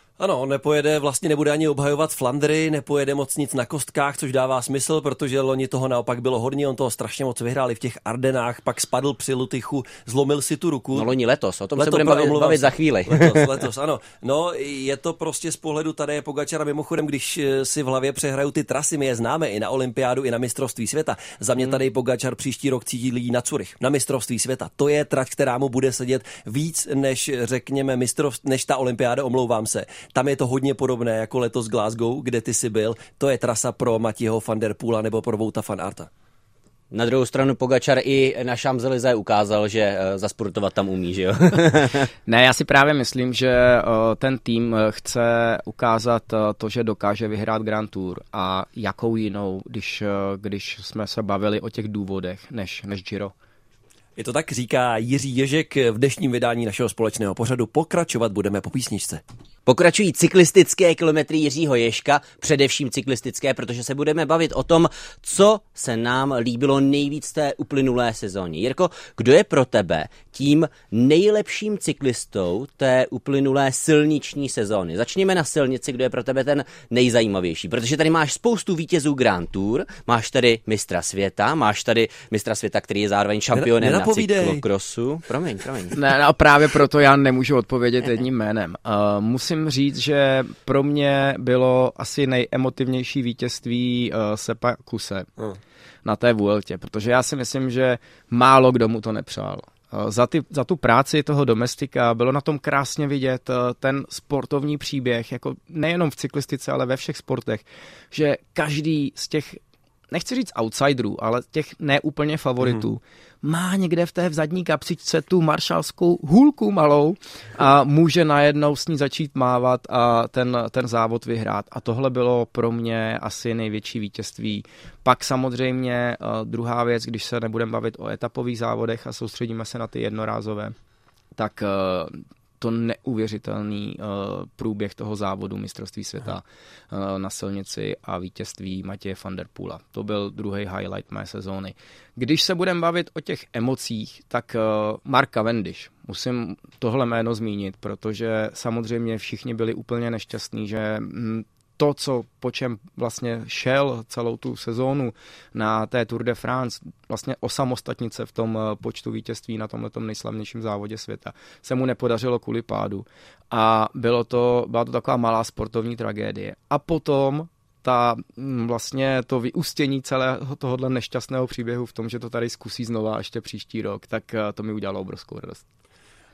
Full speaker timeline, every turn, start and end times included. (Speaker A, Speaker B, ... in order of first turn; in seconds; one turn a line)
Speaker A: 0.2-11.1
Speaker B: 10.9-13.6
Speaker A: 11.8-36.1
Speaker B: 36.9-42.1
Speaker C: 42.3-53.3
Speaker A: 54.2-59.2
Speaker B: 59.6-86.0
Speaker A: 83.5-84.6
Speaker C: 85.9-95.3
Speaker C: 96.0-109.6
Speaker C: 110.1-130.7
Speaker C: 131.3-175.6